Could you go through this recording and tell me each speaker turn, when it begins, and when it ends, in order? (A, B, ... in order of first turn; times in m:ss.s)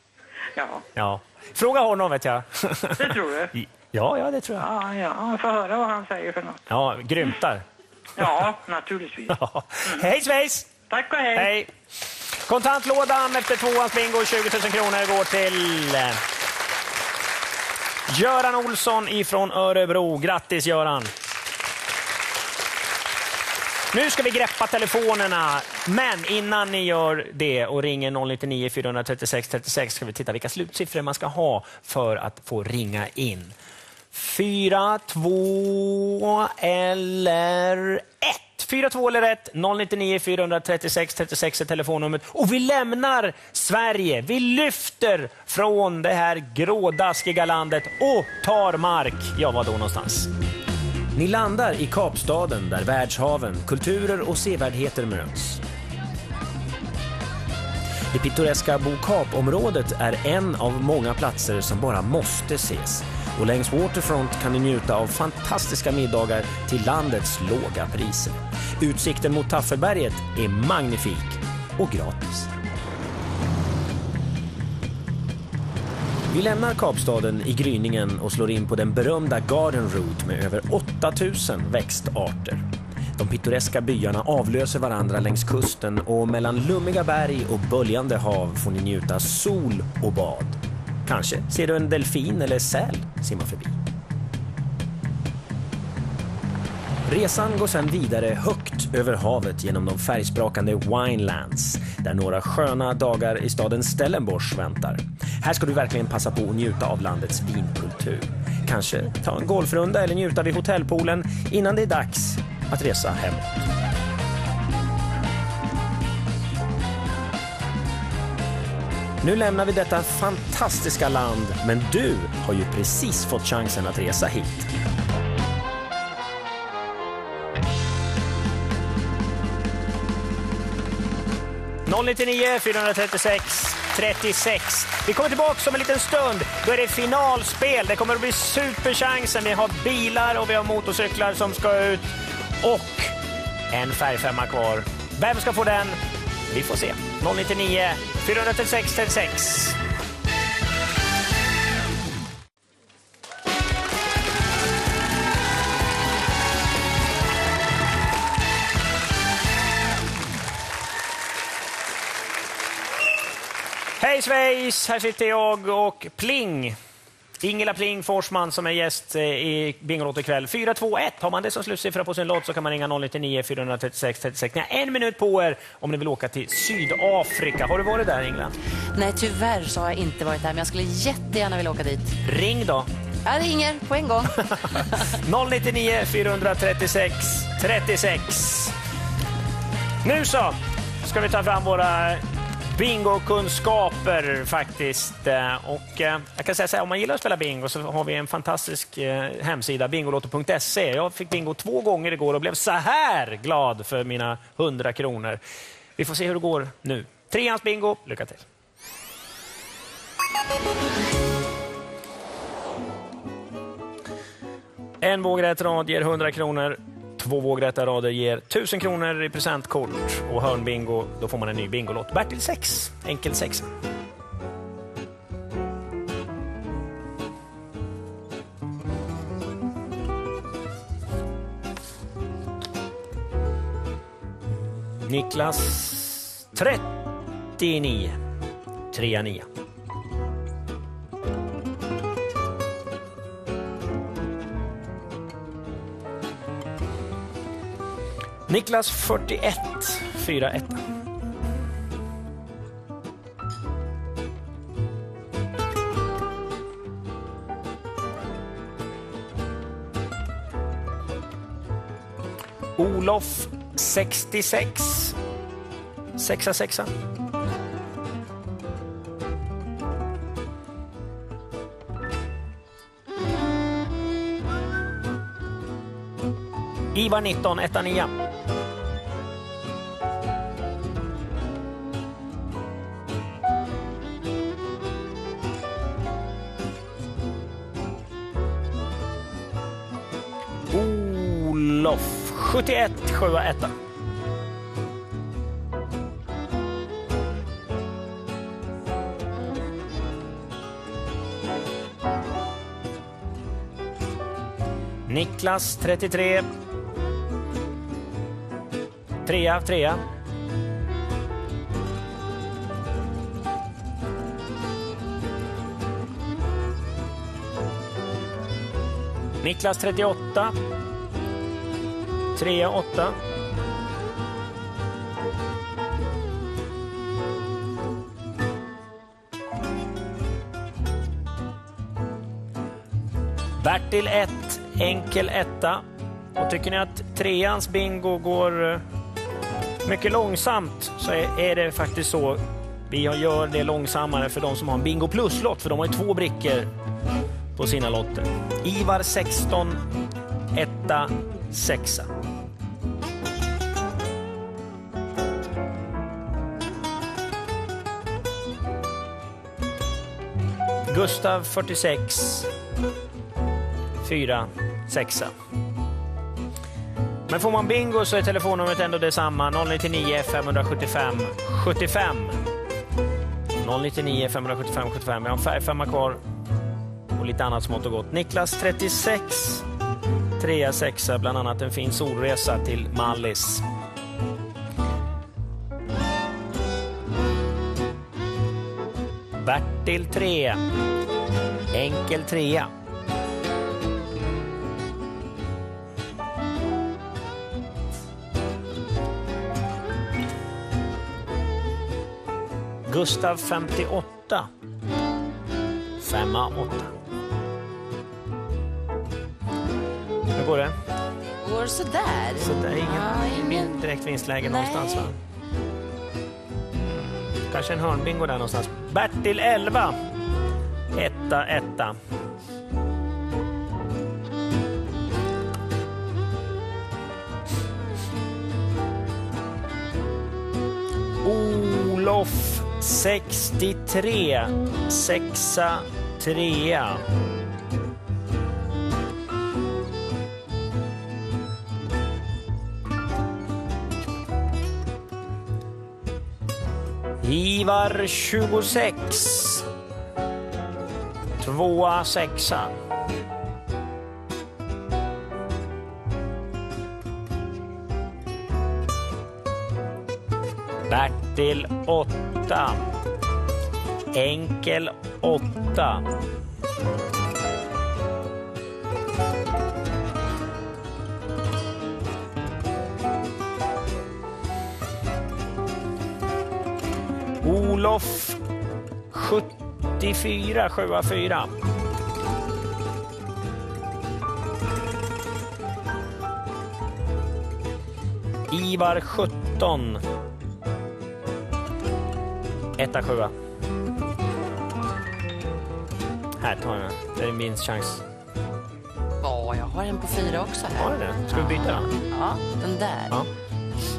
0:00.6-0:00.8 A
0:01.0-0:04.7 B
0:03.0-0:03.5 A
0:04.6-0:06.6 A
0:06.7-0:07.6 B
0:08.2-0:10.1 A
0:09.3-0:10.7 B
0:10.9-0:11.5 A
0:11.3-0:11.7 B
0:12.5-0:16.2 B
0:18.1-0:21.1 B
0:23.9-0:33.6 B
0:34.1-0:50.3 B
0:51.1-0:55.6 B
0:58.1-1:12.5 B
1:16.3-1:22.6 B
1:23.2-1:33.7 B
1:37.0-1:53.5 B
1:59.2-2:04.7 B
2:11.9-2:22.1 B
2:22.6-2:23.1 B
2:23.7-2:26.0 B
2:26.5-2:29.8 B
2:44.0-2:46.8 B
2:47.4-2:58.5 B
2:59.0-3:02.1 C
3:02.2-3:02.9 B
3:03.2-3:04.4 C
3:05.1-3:08.7 B
3:10.0-3:25.4 B
3:26.0-3:28.4 B
3:35.0-3:43.7 B
3:54.5-3:56.9 B
3:57.6-3:58.2 B
3:58.9-3:59.5 B
4:08.5-4:10.8 B
4:22.8-4:25.1 B
4:26.2-4:26.9 B
4:36.9-4:38.1 B
4:50.7-4:53.7 B
5:05.1-5:06.4 B
5:09.2-5:10.0 B
5:19.4-5:20.5 B
5:22.4-5:23.1 B
5:33.6-5:35.8 B
5:36.4-5:38.8 B
5:39.8-5:46.7 B
5:47.6-5:49.8 B
5:50.5-5:52.1 B
6:00.9-6:02.5 B
6:04.0-6:05.3 B
6:07.3-6:12.4 B
6:13.6-6:16.2 B
6:17.1-6:19.6 B
6:20.4-6:23.6 B
6:29.4-6:30.6 B
6:31.7-6:32.7 B
6:42.9-6:44.5 B
6:46.0-6:47.0 B
6:50.4-6:50.7 B
6:51.4-6:53.8 C
6:52.4-6:55.2 B
6:54.4-6:55.1 C
6:56.9-7:00.0 B
7:00.9-7:02.0 B
7:11.2-7:17.0 B
7:27.2-7:29.6 B
7:31.4-7:32.7 B
7:40.9-7:42.8 B
7:44.1-7:46.0 B
7:57.4-7:58.4 B
7:59.1-8:01.5 B
8:08.5-8:10.0 B
8:12.8-8:13.3 B
8:16.4-8:18.0 B
8:19.2-8:23.2 C
8:20.8-8:22.0 B